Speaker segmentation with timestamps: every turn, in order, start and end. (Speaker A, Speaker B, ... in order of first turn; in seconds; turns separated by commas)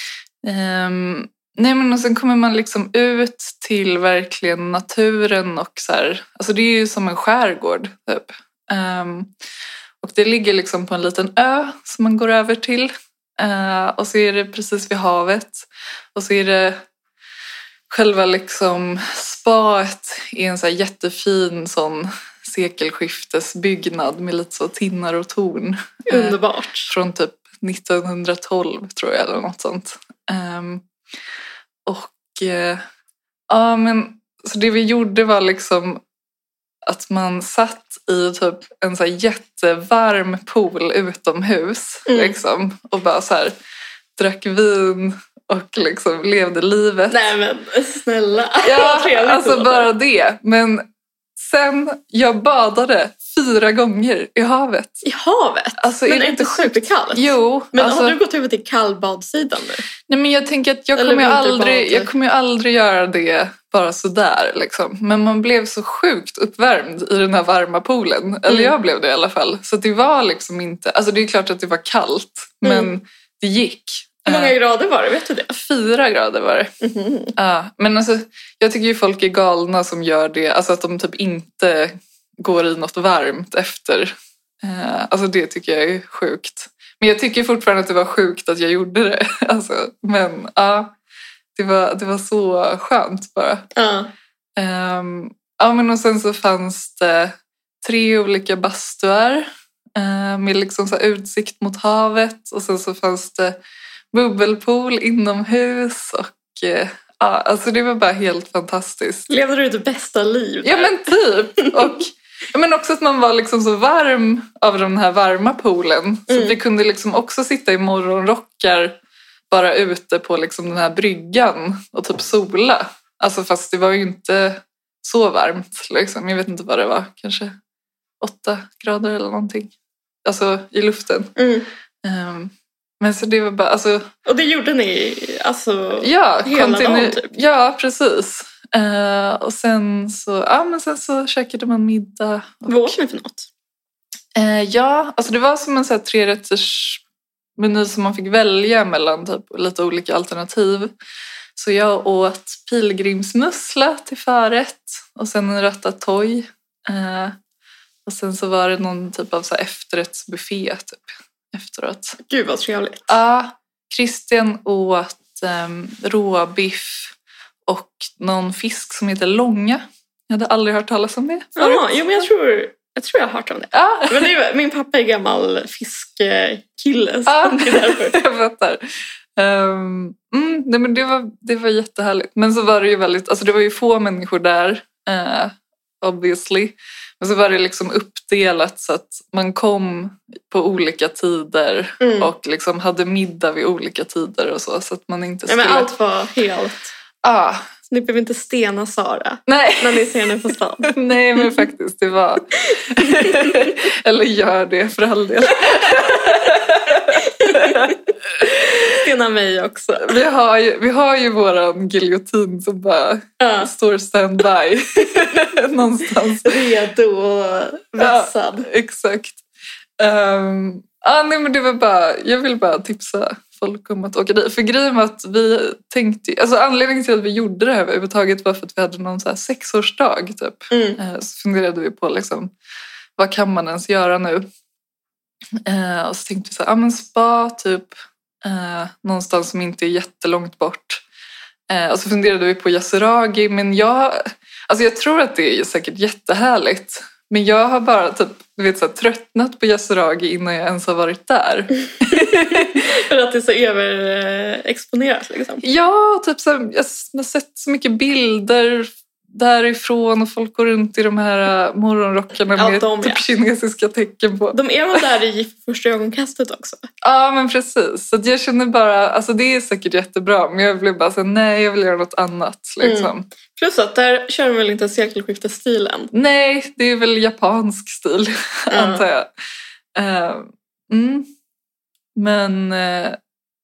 Speaker A: 0.4-9.3, Speaker A: 10.0-16.8, Speaker A: 17.9-30.8, Speaker B: 26.1-26.9, Speaker A: 31.8-32.8, Speaker A: 33.5-36.0, Speaker A: 36.8-43.5, Speaker B: 42.1-42.4, Speaker A: 44.2-47.3, Speaker B: 47.1-49.9, Speaker A: 48.6-55.0, Speaker B: 55.0-59.8, Speaker A: 55.8-58.2, Speaker A: 60.1-74.5, Speaker B: 61.0-62.1, Speaker B: 68.5-68.7, Speaker B: 72.6-72.9, Speaker B: 74.3-75.6, Speaker A: 75.5-76.7, Speaker B: 76.8-77.3, Speaker A: 77.3-90.9, Speaker A: 91.5-93.7, Speaker B: 93.7-94.1, Speaker A: 94.6-103.6, Speaker A: 104.1-109.3, Speaker B: 109.3-112.0, Speaker A: 110.6-119.0, Speaker B: 116.3-116.6, Speaker A: 119.5-127.5, Speaker A: 128.2-129.7, Speaker A: 130.2-131.3, Speaker B: 131.3-131.7, Speaker A: 132.0-134.0, Speaker B: 134.2-137.3, Speaker A: 136.0-142.9, Speaker B: 142.7-143.5, Speaker A: 144.3-147.0, Speaker A: 147.6-150.9, Speaker A: 151.6-157.3, Speaker A: 158.1-162.2, Speaker B: 162.2-163.1, Speaker A: 163.1-167.1, Speaker A: 167.7-171.8, Speaker B: 171.6-178.2, Speaker A: 173.7-174.3, Speaker A: 177.3-195.9, Speaker B: 192.0-192.3, Speaker B: 195.5-196.9, Speaker A: 197.2-197.7, Speaker B: 197.9-201.6, Speaker A: 199.5-208.9, Speaker B: 203.0-203.6, Speaker B: 207.1-208.0, Speaker B: 208.9-210.2, Speaker A: 210.0-216.6, Speaker B: 213.4-213.7, Speaker B: 216.4-218.7, Speaker A: 218.0-219.4, Speaker A: 220.0-232.5, Speaker B: 230.7-231.0, Speaker A: 233.2-234.4, Speaker A: 235.6-241.0, Speaker A: 241.7-252.8, Speaker B: 252.1-255.6, Speaker A: 255.6-264.6, Speaker B: 262.6-263.2, Speaker B: 264.5-266.8, Speaker A: 267.0-273.3, Speaker B: 272.8-276.1, Speaker A: 276.1-279.3, Speaker B: 278.7-279.0, Speaker A: 279.9-281.3, Speaker A: 282.1-283.2